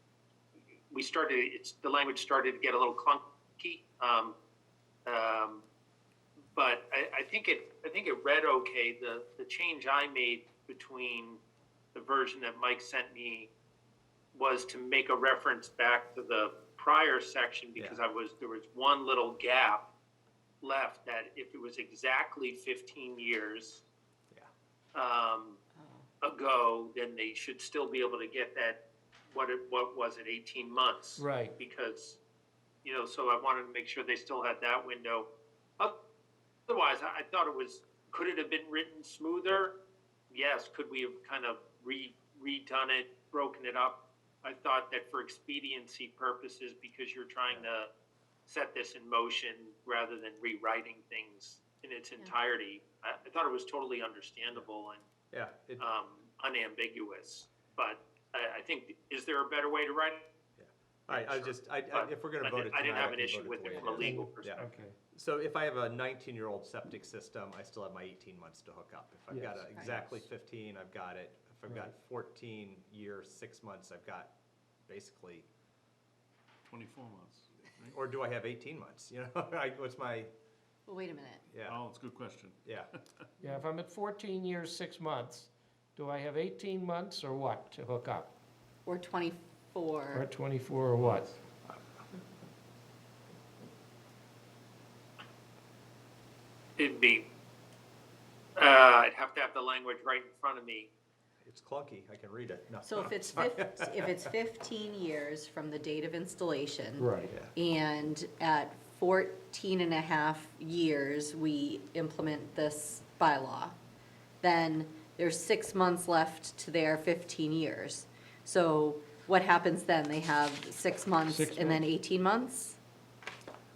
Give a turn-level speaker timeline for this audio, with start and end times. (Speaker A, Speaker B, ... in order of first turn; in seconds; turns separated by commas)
Speaker A: 0.9-4.3, Speaker A: 5.0-5.6, Speaker A: 6.5-11.4, Speaker A: 11.9-13.5, Speaker A: 14.3-19.8, Speaker A: 20.6-23.8, Speaker A: 24.9-25.6, Speaker B: 25.8-26.1, Speaker A: 26.2-28.8, Speaker A: 29.3-32.2, Speaker C: 31.2-31.5, Speaker A: 32.8-35.3, Speaker A: 36.7-39.7, Speaker A: 40.3-47.9, Speaker A: 48.5-55.0, Speaker D: 55.3-55.8, Speaker A: 55.8-60.3, Speaker D: 60.6-64.6, Speaker A: 61.1-64.6, Speaker C: 63.9-65.0, Speaker D: 65.1-74.3, Speaker C: 69.3-69.7, Speaker B: 69.7-70.0, Speaker D: 74.9-75.5, Speaker E: 76.7-78.0, Speaker D: 77.9-80.3, Speaker B: 80.9-81.5, Speaker D: 81.5-81.8, Speaker E: 81.6-82.6, Speaker C: 83.4-88.3, Speaker B: 88.8-90.2, Speaker C: 90.1-91.3, Speaker A: 96.8-97.2, Speaker A: 98.6-100.9, Speaker D: 101.4-104.2, Speaker B: 102.8-113.7, Speaker C: 107.0-107.4, Speaker B: 114.4-122.8, Speaker C: 121.3-121.8